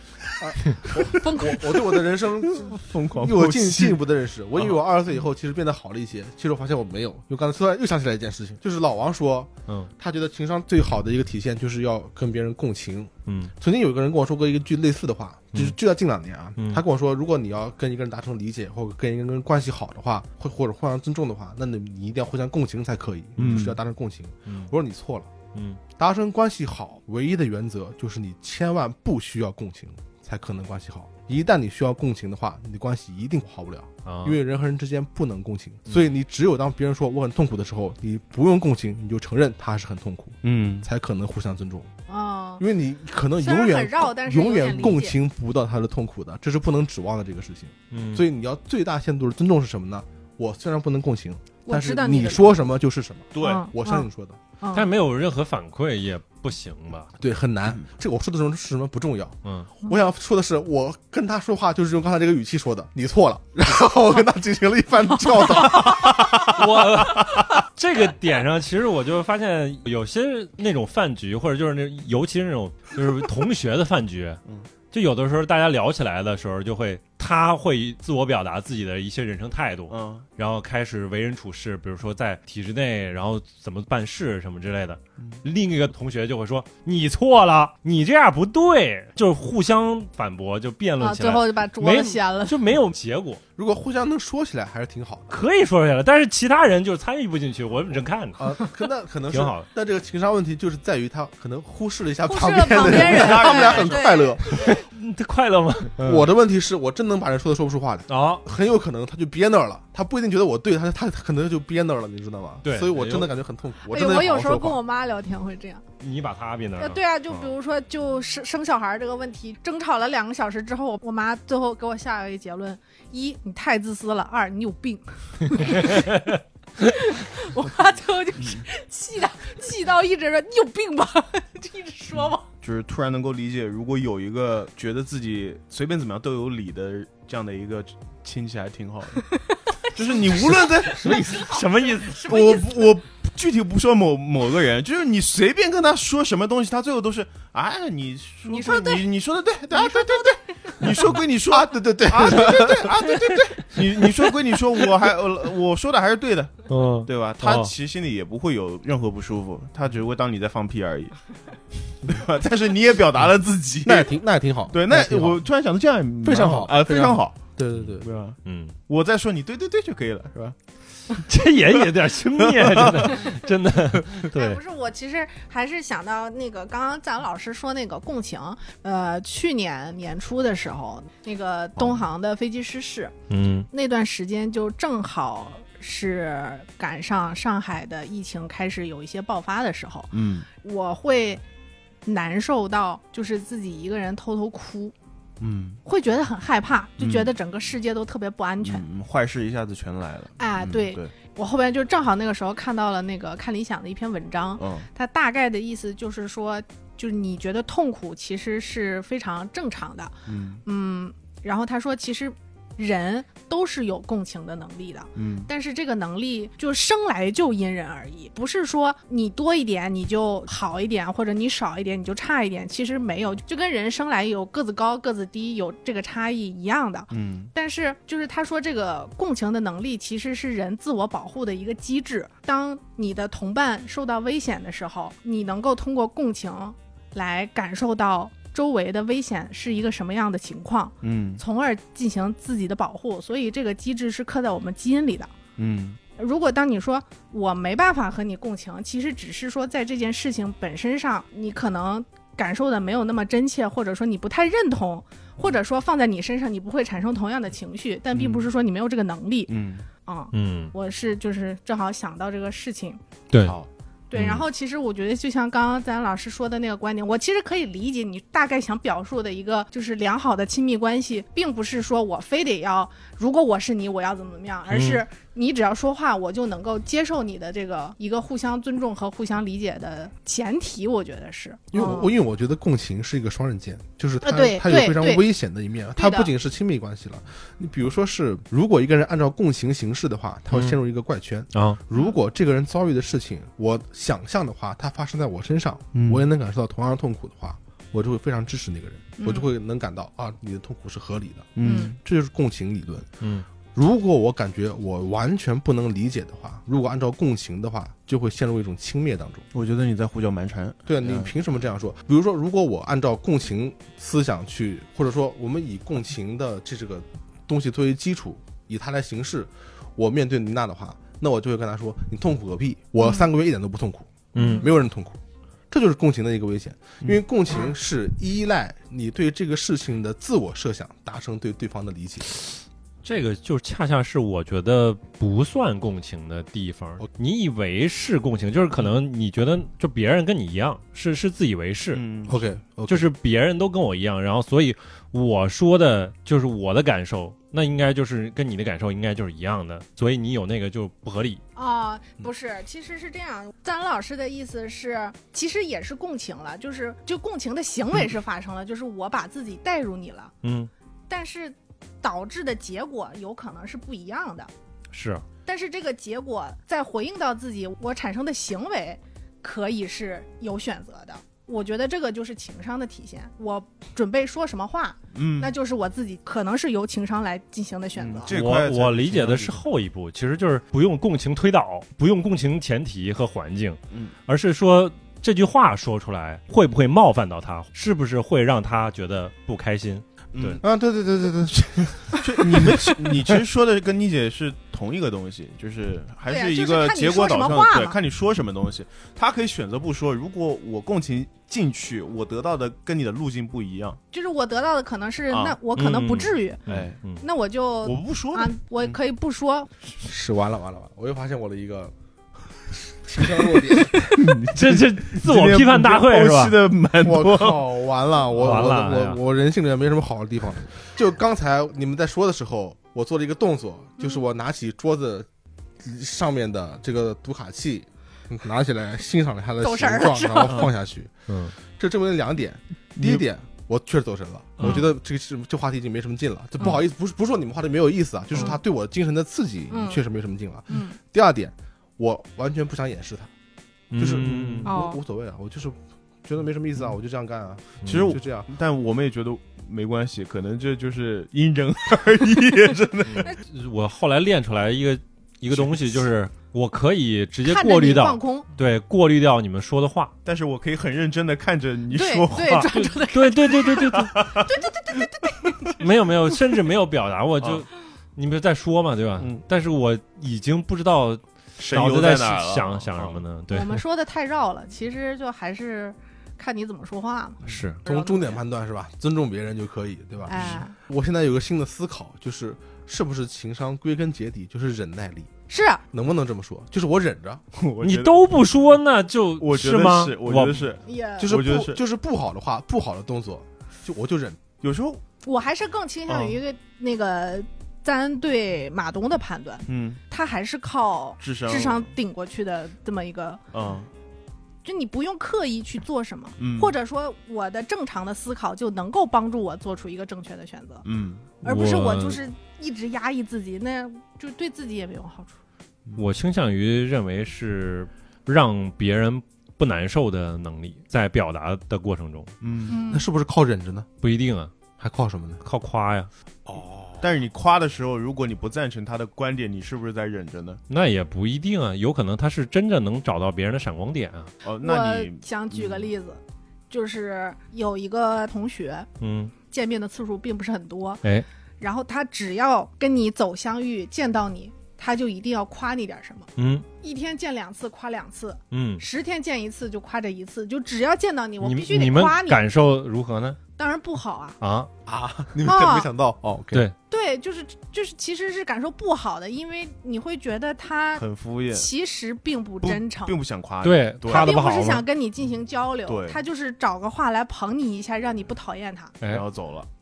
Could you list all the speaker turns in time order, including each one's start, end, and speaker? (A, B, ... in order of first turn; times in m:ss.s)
0:00.3-0:25.3 A
0:01.0-0:01.6 B
0:02.4-0:04.0 C
0:13.2-0:13.5 D
0:16.6-0:16.8 D
0:23.4-0:23.8 C
0:25.5-0:25.8 D
0:26.0-0:41.9 A
0:34.0-0:34.4 D
0:40.4-0:40.9 C
0:42.1-0:42.6 B
0:42.6-0:54.4 A
0:43.4-0:45.2 B
0:47.9-0:48.2 D
0:51.6-0:52.6 B
0:53.3-0:53.6 C
0:53.4-0:54.1 B
0:54.6-0:54.9 B
0:54.7-0:57.1 D
0:57.2-1:06.6 A
0:59.4-0:59.7 D
1:06.5-1:33.4 D
1:19.9-1:20.2 C
1:31.0-1:32.6 B
1:33.6-1:35.3 A
1:35.3-1:38.5 D
1:38.4-1:44.7 A
1:39.3-1:39.7 D
1:42.2-1:44.8 B
1:42.8-1:44.1 C
1:44.5-1:46.3 D
1:46.0-1:54.8 A
1:48.1-1:48.4 D
1:52.6-1:53.3 D
1:53.8-1:55.8 B
1:56.0-1:57.5 D
1:56.8-2:06.2 B
2:05.6-2:06.0 D
2:06.8-2:12.4 B
2:08.4-2:08.6 C
2:12.6-2:21.2 C
2:20.5-2:22.8 B
2:20.8-2:21.6 A
2:21.4-2:22.3 D
2:22.1-2:41.3 C
2:28.5-2:29.0 B
2:29.7-2:30.8 B
2:31.5-2:34.3 A
2:36.7-2:37.7 D
2:41.9-2:44.1 C
2:43.8-2:45.4 A
2:44.7-2:47.4 C
2:46.2-2:48.1 A
2:48.0-2:50.6 C
2:48.4-2:48.8 D
2:51.1-2:54.6 D
2:52.4-2:53.3 C
2:54.3-3:03.1 B
3:03.3-3:03.7 D
3:03.7-3:11.4 B
3:10.1-3:10.5 C
3:12.0-3:14.9 B
3:15.4-3:15.8 C
3:15.8-3:18.8 B
3:17.0-3:17.3 C
3:18.6-3:21.1 C
3:20.4-3:30.1 B
3:24.6-3:24.9 C
3:30.2-3:30.6 C
3:30.6-4:05.3 B
3:35.1-3:35.5 C
3:47.1-3:47.5 C
4:01.0-4:01.4 C
4:05.6-4:06.0 C
4:06.2-4:19.5 B
4:18.1-4:18.5 C
4:19.5-4:19.9 C
4:20.0-4:23.0 B
4:20.3-4:20.7 D
4:23.3-4:23.6 D
4:23.4-4:23.7 C
4:24.1-4:42.1 B
4:34.7-4:35.0 D
4:41.7-5:03.1 A
4:44.2-4:45.2 B
4:46.0-4:46.3 B
4:51.5-4:51.8 D
4:55.9-4:56.2 C
4:59.2-4:59.5 B
5:01.6-5:02.0 C
5:01.6-5:01.9 B
5:03.2-5:03.4 D
5:03.7-5:09.4 A
5:09.5-5:11.3 C
5:10.9-5:25.2 A
5:24.3-5:24.7 D
5:24.4-5:24.6 B
5:25.7-5:32.3 A
5:33.0-5:42.0 D
5:41.9-5:42.4 C
5:42.3-5:43.1 A
5:42.9-5:51.4 D
5:51.6-6:00.3 B
6:00.4-6:00.7 D
6:01.1-6:04.5 B
6:04.9-6:05.2 D
6:05.4-6:18.3 B
6:15.1-6:15.5 C
6:18.0-6:19.6 C
6:18.3-6:30.6 D
6:30.3-6:30.6 C
6:30.6-6:32.8 A
6:32.2-6:44.0 C
6:36.3-6:38.0 B
6:44.1-6:46.6 B
6:45.3-6:45.6 C
6:45.8-6:47.2 D
6:46.7-6:47.0 C
6:47.2-6:49.7 B
6:47.8-6:49.0 C
6:50.0-6:51.9 A
6:52.7-6:54.0 A
6:54.1-6:57.6 C
6:54.5-6:56.6 D
6:57.0-7:05.3 A
6:58.3-6:59.2 D
7:05.8-7:23.3 A
7:09.6-7:10.7 B
7:11.3-7:11.5 D
7:13.0-7:13.2 C
7:14.6-7:14.8 D
7:19.7-7:20.0 B
7:20.7-7:21.0 B
7:23.9-7:24.7 D
7:24.0-7:28.5 A
7:24.6-7:25.0 B
7:27.8-7:28.2 D
7:27.8-7:33.3 C
7:33.0-7:40.1 D
7:35.5-7:36.1 C
7:37.4-7:38.5 B
7:40.2-7:42.7 C
7:41.9-7:43.9 B
7:42.4-7:44.4 D
7:43.8-7:44.5 C
7:44.4-7:45.8 B
7:45.8-7:53.8 D
7:47.4-7:47.6 C
7:49.2-7:49.4 C
7:51.6-7:53.2 C
7:53.5-7:58.4 B
7:57.4-7:57.8 D
7:57.8-8:05.3 A
8:00.3-8:00.7 B
8:05.5-8:05.8 B
8:05.9-8:07.4 A
8:07.5-8:08.5 C
8:07.8-8:10.7 D
8:09.4-8:11.8 C
8:10.8-8:11.3 B
8:11.2-8:14.4 A
8:14.6-8:15.0 C
8:15.2-8:23.4 B
8:16.1-8:16.4 C
8:19.7-8:20.0 C
8:21.2-8:21.9 C
8:23.5-8:23.9 C
8:24.6-8:30.8 B
8:26.4-8:26.7 C
8:30.8-8:31.2 C
8:31.4-8:35.3 B
8:31.4-8:32.2 D
8:36.0-8:42.3 D
8:42.4-8:42.8 C
8:42.7-8:43.0 B
8:42.9-8:43.9 A
8:44.0-8:44.5 D
8:44.8-8:45.4 A
8:45.4-8:46.1 D
8:46.4-8:50.6 C
8:50.7-8:54.3 D
8:54.4-8:55.9 C
8:54.6-8:58.9 B
8:59.0-8:59.3 D
8:59.5-9:01.0 B
9:01.6-9:06.3 B
9:06.4-9:06.6 D
9:06.8-9:12.4 B
9:08.5-9:08.8 D
9:11.4-9:13.4 D
9:13.6-9:14.4 B
9:14.4-9:14.7 D
9:14.8-9:16.7 A
9:15.4-9:15.9 B
9:16.9-9:23.2 B
9:21.0-9:21.7 C
9:22.6-9:24.4 C
9:23.6-9:24.8 D
9:24.1-9:28.9 B
9:25.9-9:26.2 C
9:29.0-9:29.2 D
9:29.1-9:29.7 C